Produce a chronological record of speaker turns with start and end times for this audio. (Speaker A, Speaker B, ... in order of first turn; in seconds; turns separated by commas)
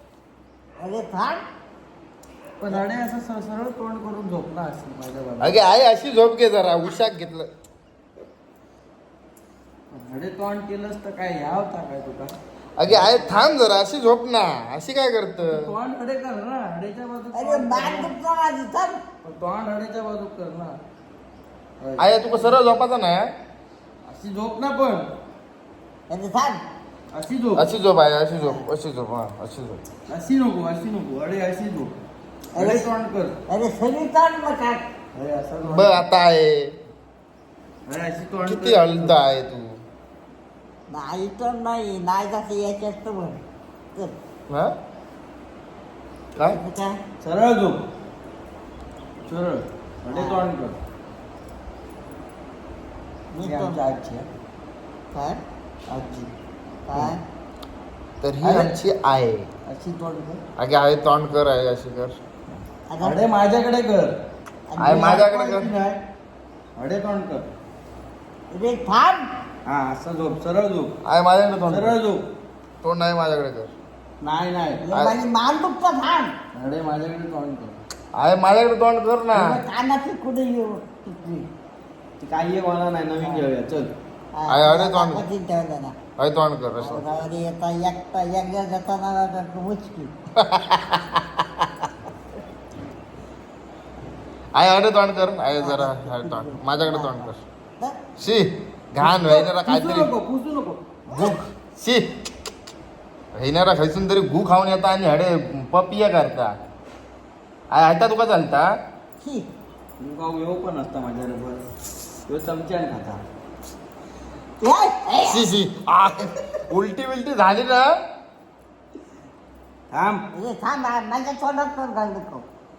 Speaker A: 0.8-1.4, Speaker B: 2.6-5.6, Speaker C: 5.4-7.5, Speaker B: 9.9-12.3, Speaker C: 12.8-15.7, Speaker B: 12.9-13.2, Speaker B: 15.4-18.1, Speaker A: 17.3-19.0, Speaker B: 19.2-20.8, Speaker B: 21.8-22.6, Speaker C: 22.0-23.3, Speaker B: 24.1-25.1, Speaker A: 26.1-26.6, Speaker B: 27.1-27.6, Speaker C: 27.6-29.8, Speaker A: 28.4-28.7, Speaker B: 30.1-31.9, Speaker B: 32.5-33.4, Speaker A: 32.5-32.9, Speaker A: 33.5-34.8, Speaker B: 35.1-36.0, Speaker C: 35.6-36.8, Speaker B: 37.9-39.2, Speaker C: 38.4-39.8, Speaker A: 40.9-43.4, Speaker A: 46.4-47.0, Speaker B: 47.2-47.8, Speaker B: 49.3-50.8, Speaker A: 50.1-50.5, Speaker A: 53.3-53.8, Speaker B: 53.4-54.3, Speaker A: 55.1-55.4, Speaker B: 55.9-56.3, Speaker A: 56.9-57.2, Speaker C: 58.2-59.5, Speaker B: 58.4-58.7, Speaker B: 59.7-60.4, Speaker C: 60.6-62.1, Speaker A: 62.9-63.2, Speaker B: 63.0-64.1, Speaker A: 64.7-65.1, Speaker C: 64.8-65.7, Speaker B: 64.8-66.0, Speaker B: 66.8-67.5, Speaker A: 68.5-69.3, Speaker B: 69.7-70.9, Speaker C: 71.0-72.0, Speaker B: 71.7-72.2, Speaker C: 72.8-73.7, Speaker B: 74.2-74.8, Speaker A: 74.8-76.3, Speaker B: 76.5-77.8, Speaker C: 78.1-79.6, Speaker A: 79.3-81.5, Speaker B: 82.2-83.9, Speaker A: 84.3-86.0, Speaker C: 84.5-85.2, Speaker C: 86.2-87.0, Speaker A: 86.8-90.1, Speaker C: 90.4-91.2, Speaker C: 94.5-97.4, Speaker A: 95.6-98.0, Speaker C: 98.2-100.1, Speaker B: 99.0-101.0, Speaker C: 101.1-102.1, Speaker C: 103.3-106.5, Speaker C: 107.7-108.7, Speaker A: 109.2-109.5, Speaker B: 110.0-111.7, Speaker B: 112.3-113.2, Speaker A: 114.6-115.5, Speaker C: 115.3-117.9, Speaker B: 119.9-120.2, Speaker A: 120.3-122.5